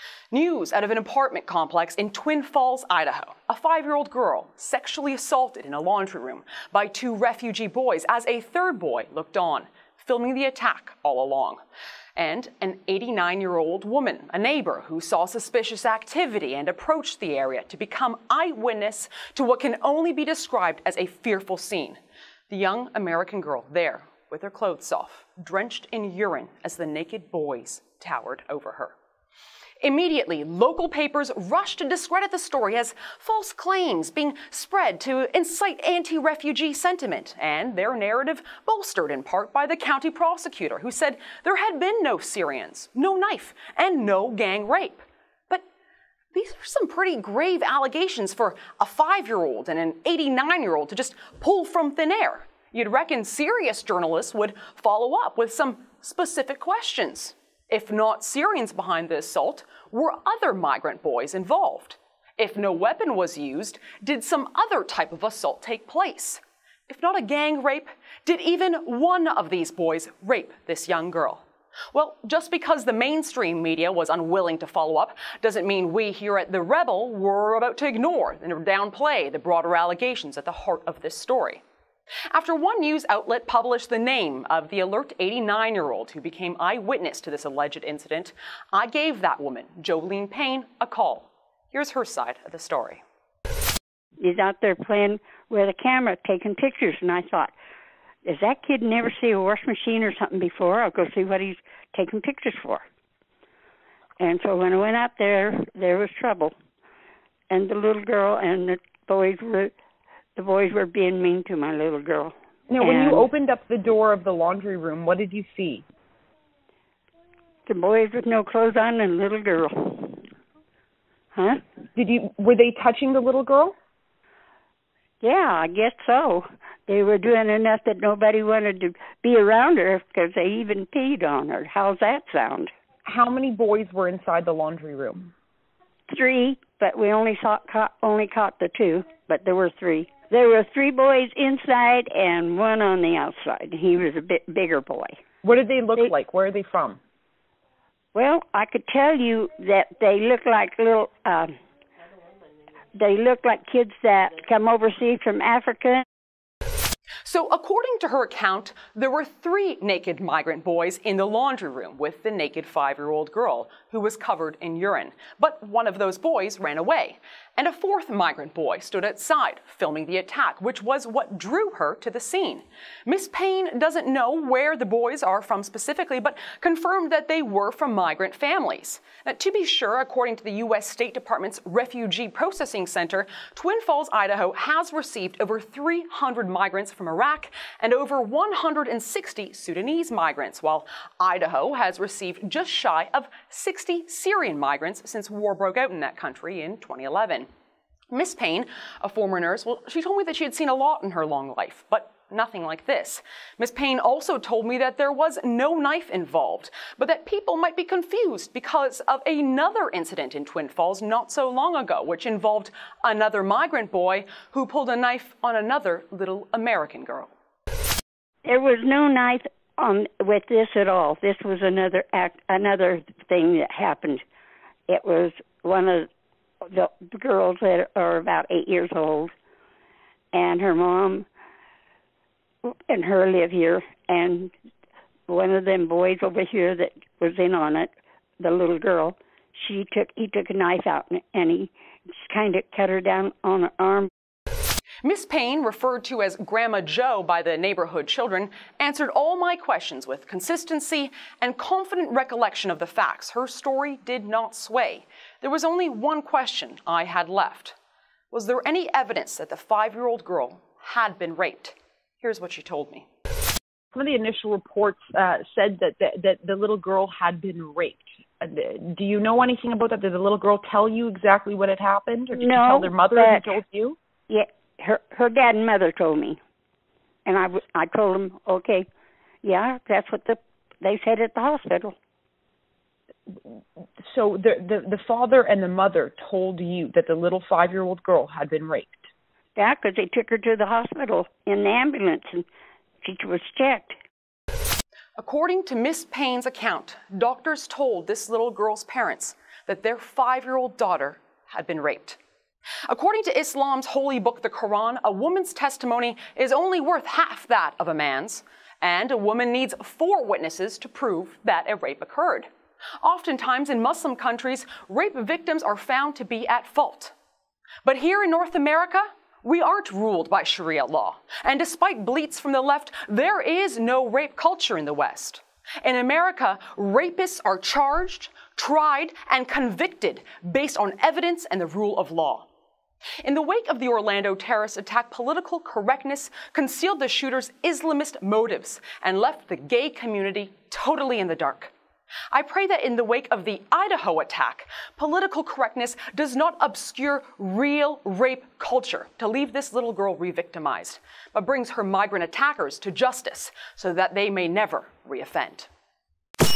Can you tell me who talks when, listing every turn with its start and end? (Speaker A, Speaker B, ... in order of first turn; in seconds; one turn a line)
Speaker A: 0.3-11.6
Speaker A: 12.2-22.0
Speaker A: 22.5-28.9
Speaker A: 29.8-45.6
Speaker A: 46.3-81.6
Speaker A: 82.3-93.0
Speaker B: 94.2-97.5
Speaker B: 98.2-102.8
Speaker B: 104.2-106.5
Speaker B: 107.5-109.7
Speaker B: 110.3-113.3
Speaker C: 112.7-115.8
Speaker B: 117.7-120.2
Speaker B: 121.3-121.6
Speaker C: 122.0-123.7
Speaker B: 125.2-132.7
Speaker C: 133.0-135.3
Speaker B: 136.1-145.2
Speaker C: 145.4-147.0
Speaker B: 148.1-151.5
Speaker B: 152.9-156.0
Speaker A: 157.2-197.5
Speaker A: 198.1-217.3
Speaker B: 218.4-224.2
Speaker B: 224.9-226.1
Speaker B: 226.6-229.3
Speaker B: 230.3-231.3
Speaker B: 232.6-234.5
Speaker B: 235.3-244.1
Speaker A: 245.0-257.8
Speaker A: 258.3-263.1
Speaker C: 263.9-274.0
Speaker B: 272.3-273.5
Speaker B: 274.3-276.4
Speaker B: 277.2-278.9
Speaker B: 279.4-281.9
Speaker C: 284.1-289.0
Speaker B: 289.6-292.5
Speaker B: 293.0-294.0
Speaker A: 295.2-302.2
Speaker A: 302.9-312.5
Speaker A: 313.0-317.1
Speaker A: 317.8-332.5
Speaker A: 333.2-341.7
Speaker A: 342.3-355.7